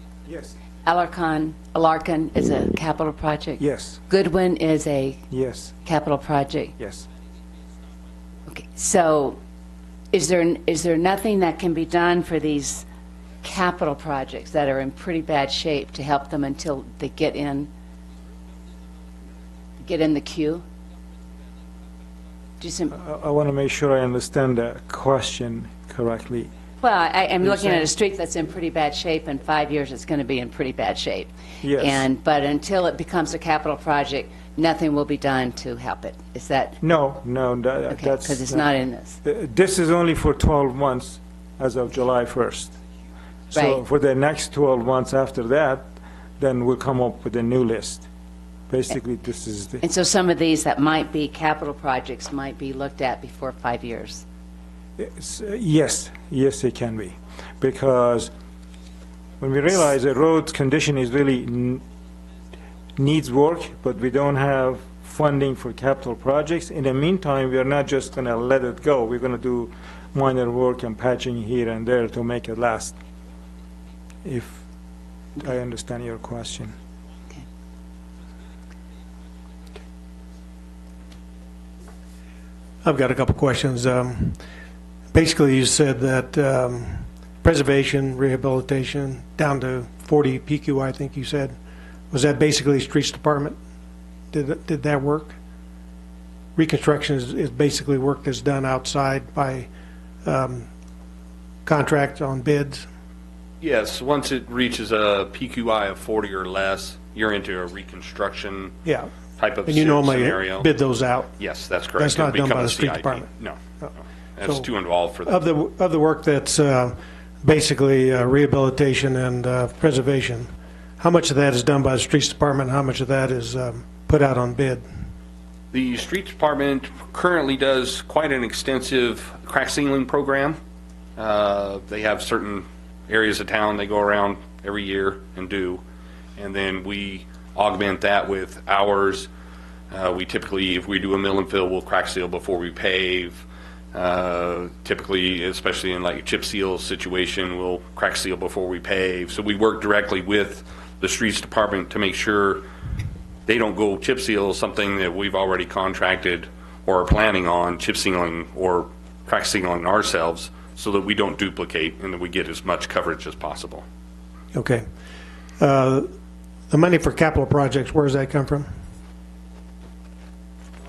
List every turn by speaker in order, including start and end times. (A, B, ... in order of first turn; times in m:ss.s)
0:00.3-0:00.5 A
0:00.8-0:05.2 B
0:03.6-0:04.0 A
0:05.3-0:05.7 A
0:05.8-0:06.8 B
0:06.8-0:07.1 A
0:08.5-0:09.4 B
0:10.1-0:12.9 B
0:13.4-0:17.7 B
0:19.8-0:20.6 B
0:22.6-0:22.9 B
0:22.9-0:26.5 A
0:26.8-0:36.8 B
0:27.4-0:27.8 A
0:31.6-0:32.1 A
0:36.8-0:38.7 A
0:37.9-0:39.2 B
0:39.2-0:42.7 A
0:43.5-0:43.8 B
0:43.5-0:48.1 A
0:48.7-0:49.8 A
0:49.8-0:54.2 B
0:55.0-0:58.3 A
0:59.4-1:01.8 A
1:03.0-1:13.0 A
1:14.2-1:14.6 A
1:15.4-1:16.8 A
1:22.8-1:24.4 C
1:25.1-1:31.6 C
1:32.1-1:33.6 C
1:34.3-1:35.4 C
1:36.6-1:39.7 C
1:40.2-1:40.7 C
1:41.6-1:42.9 C
1:43.6-1:48.8 D
1:48.8-1:49.1 C
1:49.4-1:50.7 D
1:49.6-1:51.3 C
1:51.4-1:55.4 D
1:52.0-1:53.3 C
1:54.4-1:54.7 C
1:55.3-2:04.8 C
2:05.7-2:10.6 D
2:11.2-2:15.8 D
2:16.4-2:19.3 D
2:19.9-2:32.6 D
2:33.5-2:43.8 D
2:44.5-2:44.8 C
2:45.6-2:46.1 C
2:46.7-2:48.7 C